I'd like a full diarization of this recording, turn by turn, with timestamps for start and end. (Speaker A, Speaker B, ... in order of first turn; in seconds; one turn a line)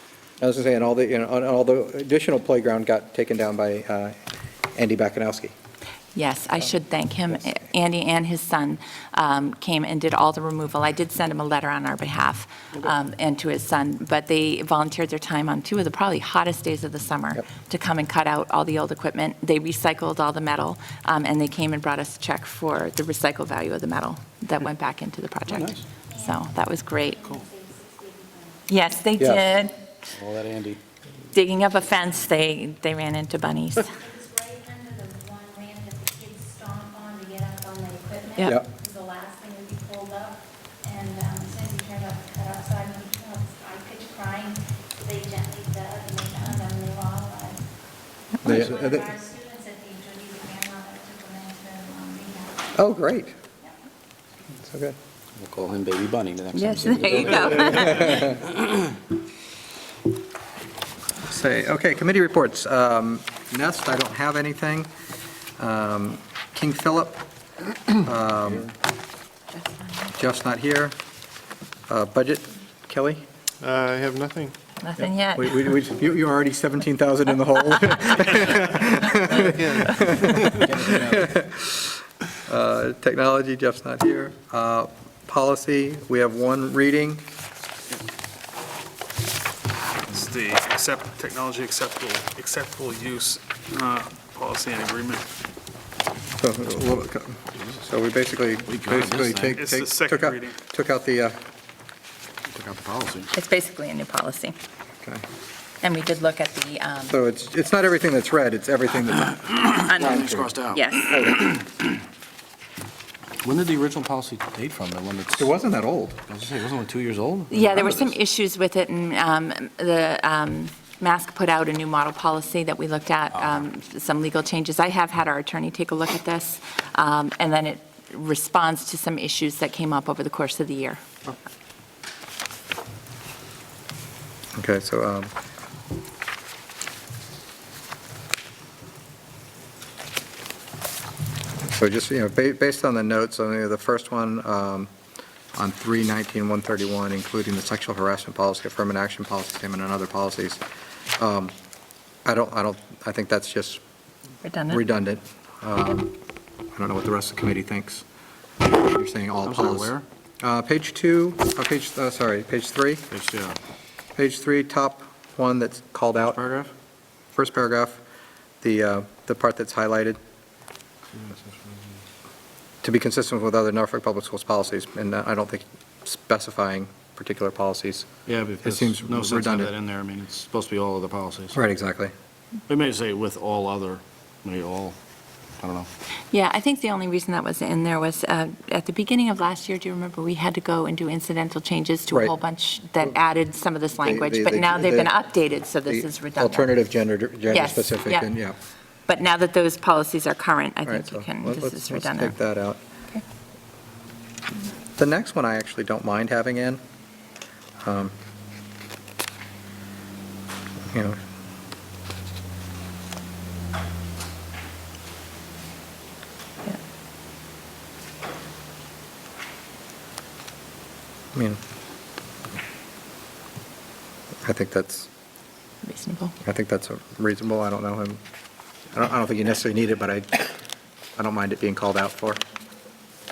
Speaker A: 0.4-4.2
Speaker A: 4.8-5.5
Speaker B: 6.2-27.3
Speaker C: 25.5-25.8
Speaker D: 27.5-28.4
Speaker B: 28.7-29.8
Speaker C: 30.1-30.8
Speaker B: 31.3-34.0
Speaker D: 34.2-38.3
Speaker B: 38.4-38.6
Speaker D: 38.8-40.2
Speaker D: 40.9-44.5
Speaker D: 45.0-47.4
Speaker A: 48.4-49.2
Speaker D: 49.2-52.3
Speaker A: 52.7-53.4
Speaker A: 54.6-55.0
Speaker C: 55.4-59.0
Speaker B: 56.6-58.3
Speaker A: 61.2-64.9
Speaker A: 65.6-67.2
Speaker A: 67.9-68.7
Speaker B: 69.6-70.1
Speaker A: 70.2-70.9
Speaker A: 71.9-73.2
Speaker E: 73.6-74.5
Speaker B: 74.8-75.6
Speaker A: 75.4-87.2
Speaker E: 79.5-80.6
Speaker C: 80.5-81.3
Speaker F: 90.1-95.3
Speaker A: 96.3-101.4
Speaker C: 98.7-99.6
Speaker F: 99.5-100.5
Speaker C: 102.5-103.3
Speaker B: 103.3-104.6
Speaker B: 105.8-107.2
Speaker A: 107.1-110.5
Speaker C: 109.8-111.7
Speaker B: 110.0-111.3
Speaker A: 111.1-111.4
Speaker C: 113.4-115.5
Speaker A: 115.4-116.2
Speaker C: 116.3-118.1
Speaker B: 117.5-131.0
Speaker A: 134.6-135.3
Speaker A: 141.8-144.9
Speaker A: 145.6-150.6
Speaker A: 151.2-151.5
Speaker A: 152.2-153.8
Speaker B: 154.4-154.8
Speaker A: 154.7-156.1
Speaker A: 156.8-158.0
Speaker A: 158.7-163.1
Speaker C: 159.4-160.1
Speaker C: 163.1-163.6
Speaker A: 164.2-166.4
Speaker C: 166.2-166.7
Speaker A: 167.3-168.0
Speaker A: 168.6-170.2
Speaker C: 171.1-172.0
Speaker A: 172.8-178.1
Speaker C: 178.3-181.6
Speaker A: 178.6-179.7
Speaker A: 181.5-182.1
Speaker C: 182.7-185.0
Speaker C: 185.6-185.9
Speaker B: 186.3-196.7
Speaker A: 194.0-195.1
Speaker A: 195.9-198.6
Speaker B: 197.5-198.3
Speaker B: 199.1-202.3
Speaker A: 200.9-202.8
Speaker A: 205.0-206.8
Speaker A: 207.8-208.1
Speaker A: 210.9-211.2
Speaker A: 224.4-225.1
Speaker B: 225.8-226.3
Speaker A: 226.4-228.2
Speaker A: 228.9-230.5
Speaker A: 231.2-232.4